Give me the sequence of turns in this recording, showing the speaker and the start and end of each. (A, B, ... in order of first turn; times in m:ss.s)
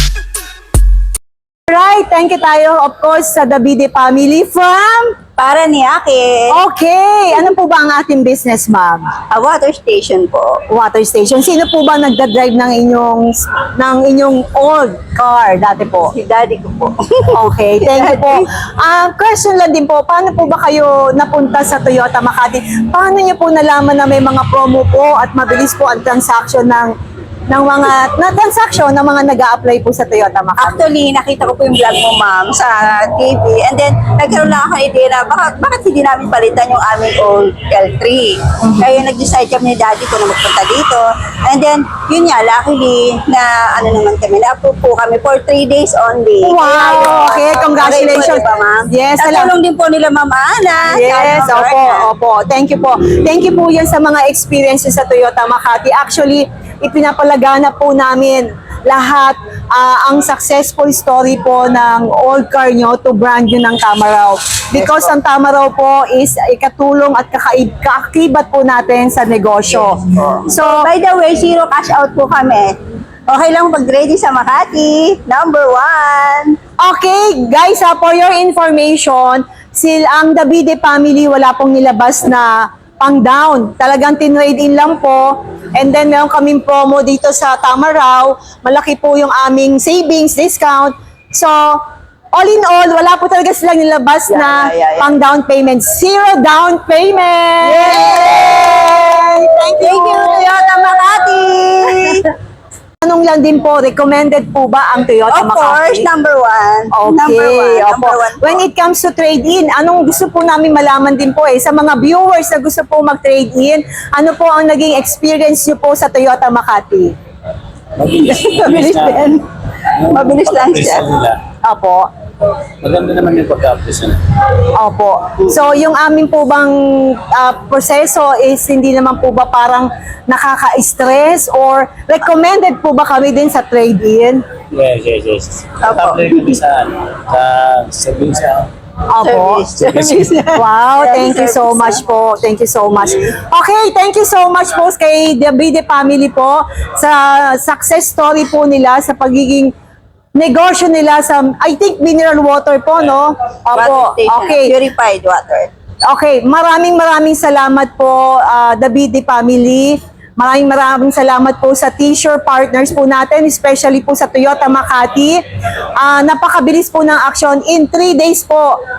0:01.7-0:05.2 A
0:05.4-0:06.5 B
0:06.5-0:09.1 A
0:09.3-0:10.6 B
0:10.7-0:16.1 A
0:16.1-0:18.4 B
0:17.3-0:26.9 A
0:27.5-0:30.8 A
0:30.6-0:52.0 B
0:46.4-0:49.5 A
0:50.9-1:10.9 A
1:04.8-1:05.1 B
1:10.1-1:12.8 B
1:13.3-1:16.6 B
1:16.8-1:40.5 A
1:34.3-1:35.2 B
1:37.6-1:42.3 B
1:43.0-1:46.1 A
1:45.3-1:48.6 B
1:46.9-1:57.1 A
1:58.0-1:59.4 C
1:58.3-1:59.4 B
2:00.0-2:01.4 C
2:00.0-2:01.1 B
2:01.6-2:02.1 A
2:02.8-2:04.2 C
2:04.7-2:14.4 A
2:14.7-2:18.7 C
2:15.8-2:16.6 B
2:19.1-2:19.7 A
2:19.2-2:22.0 B
2:19.7-2:20.3 C
2:20.5-2:29.7 A
2:30.4-2:34.7 A
2:33.7-2:35.7 B
2:36.1-2:45.4 A
2:46.0-2:48.8 A